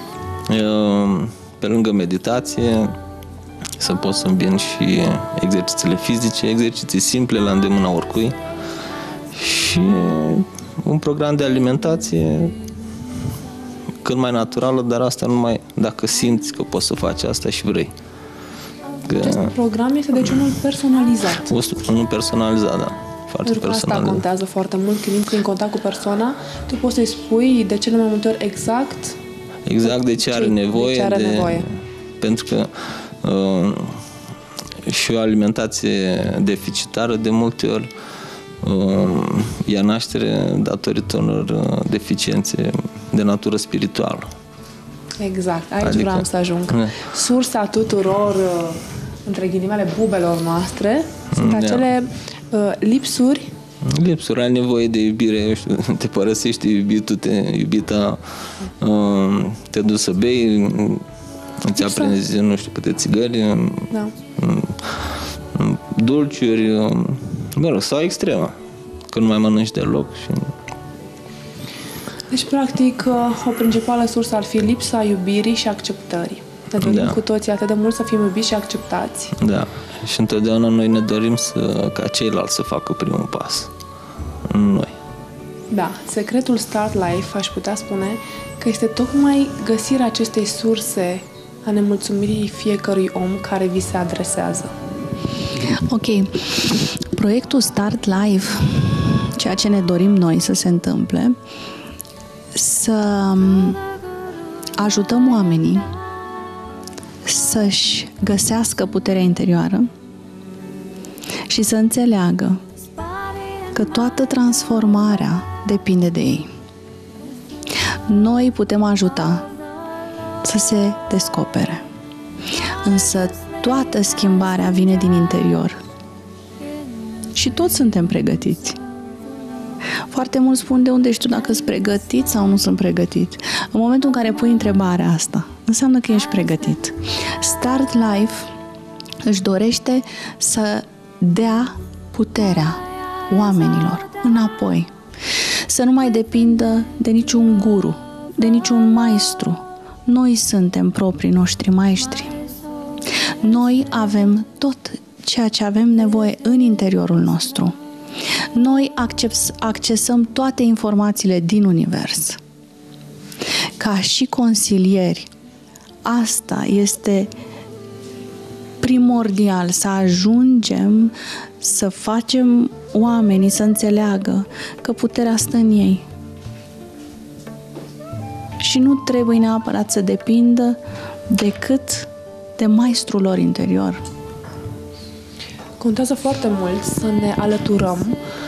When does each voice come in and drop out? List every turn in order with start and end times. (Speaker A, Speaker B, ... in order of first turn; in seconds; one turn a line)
Speaker A: 0.5-3.0
Speaker A: 3.8-8.4
Speaker A: 9.3-12.6
Speaker A: 14.0-17.9
Speaker A: 19.1-19.5
Speaker B: 19.2-21.5
Speaker A: 21.4-24.2
Speaker B: 23.4-29.2
Speaker A: 29.6-34.0
Speaker B: 29.8-31.7
Speaker A: 34.8-37.9
Speaker A: 38.6-44.3
Speaker B: 45.2-53.5
Speaker A: 45.8-46.9
Speaker A: 51.4-51.9
Speaker A: 53.8-58.2
Speaker A: 58.8-61.0
Speaker A: 61.6-68.5
Speaker B: 61.8-62.1
Speaker A: 69.1-70.5
Speaker B: 72.3-79.3
Speaker A: 76.8-77.2
Speaker A: 79.4-83.7
Speaker A: 84.5-84.9
Speaker B: 85.7-94.7
Speaker C: 95.7-101.4
Speaker C: 102.5-103.8
Speaker C: 104.8-105.8
Speaker C: 107.2-109.9
Speaker C: 111.5-112.6
Speaker C: 113.7-116.5
Speaker C: 118.0-119.5
Speaker C: 120.4-121.8
Speaker C: 122.8-125.8
Speaker C: 127.3-128.8
Speaker C: 130.1-138.5
Speaker C: 139.2-144.9
Speaker C: 145.6-152.4
Speaker C: 153.4-157.8
Speaker C: 158.5-162.4
Speaker C: 163.8-165.3
Speaker C: 166.0-167.3
Speaker C: 168.8-176.0
Speaker C: 178.6-184.0
Speaker B: 185.8-188.2